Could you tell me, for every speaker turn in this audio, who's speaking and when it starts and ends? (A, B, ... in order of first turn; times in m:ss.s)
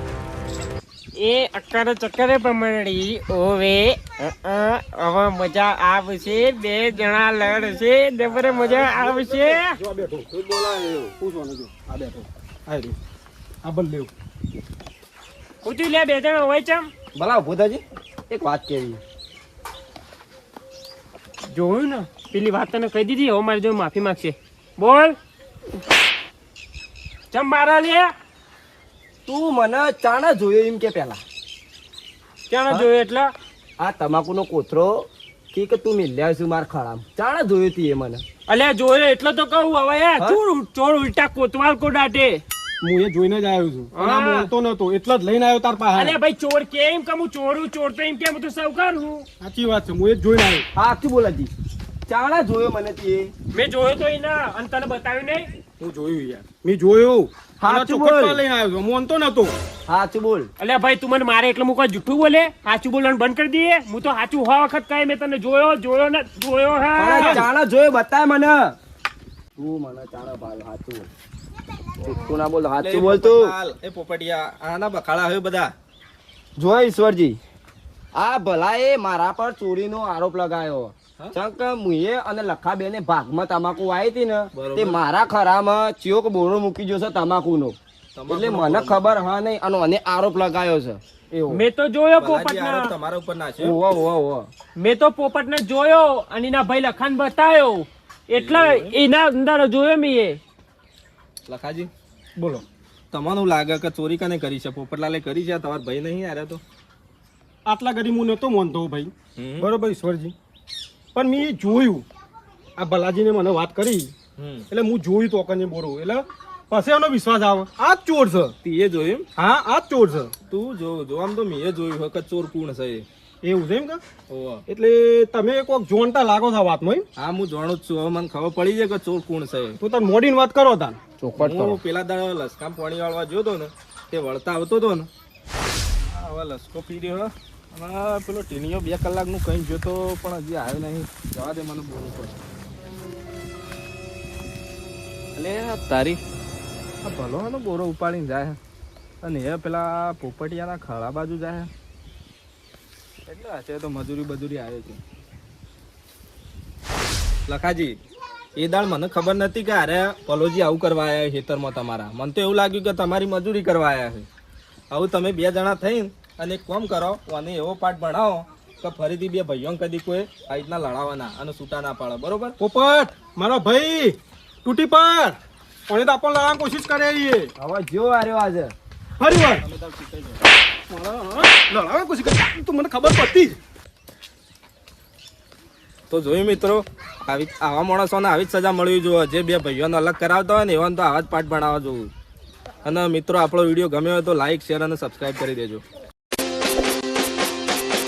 0:01.2-0:09.8 A
0:08.2-0:10.3 B
0:10.4-0:11.1 C
0:11.2-0:13.0 B
0:13.6-0:14.1 B
0:15.6-0:16.9 A
0:17.2-0:19.0 C
0:21.5-0:25.2 A
0:27.3-0:28.1 A
0:29.3-0:31.2 C
0:32.5-0:33.3 A
0:33.8-0:38.2 C
0:38.5-0:42.4 A
0:42.8-0:46.2 B
0:43.9-0:44.5 A
0:46.0-0:49.3 A
0:49.4-0:50.7 B
0:50.8-0:51.5 C
0:52.1-0:53.3 C
0:53.5-0:55.5 A
0:55.8-0:59.5 B
0:57.6-0:58.4 C
0:59.9-1:00.5 C
1:00.6-1:07.4 A
1:07.0-1:08.8 C
1:07.2-1:07.4 B
1:09.6-1:11.1 C
1:12.0-1:13.5 C
1:12.0-1:15.7 D
1:16.6-1:17.4 C
1:18.2-1:27.8 C
1:24.5-1:25.0 D
1:28.2-1:29.2 D
1:28.3-1:31.6 C
1:31.5-1:32.9 A
1:32.2-1:33.8 D
1:33.6-1:34.5 C
1:34.8-1:40.4 A
1:38.4-1:38.9 D
1:41.5-1:41.9 D
1:42.4-1:42.6 B
1:43.1-1:46.6 D
1:47.7-1:50.3 B
1:49.4-1:49.7 D
1:51.2-1:52.1 B
1:52.8-1:54.2 B
1:54.4-1:54.7 D
1:54.7-1:58.6 B
1:58.6-1:59.3 D
1:59.4-2:00.3 B
2:00.5-2:03.1 D
2:03.4-2:04.0 B
2:04.3-2:04.6 D
2:04.7-2:07.1 B
2:07.2-2:09.8 D
2:09.8-2:11.0 B
2:11.2-2:11.8 C
2:11.4-2:15.1 D
2:16.0-2:22.4 D
2:25.4-2:26.2 D
2:27.0-2:28.6 D
2:29.2-2:31.7 D
2:33.3-2:35.0 D
2:37.5-2:38.0 D
2:38.6-2:44.3 D
2:44.9-2:52.6 D
2:52.6-2:55.4 B
2:55.9-2:57.5 B
2:57.6-2:58.7 C
2:59.2-2:59.6 B
2:59.4-3:00.4 D
3:00.9-3:03.6 B
3:06.1-3:12.1 D
3:12.8-3:15.8 D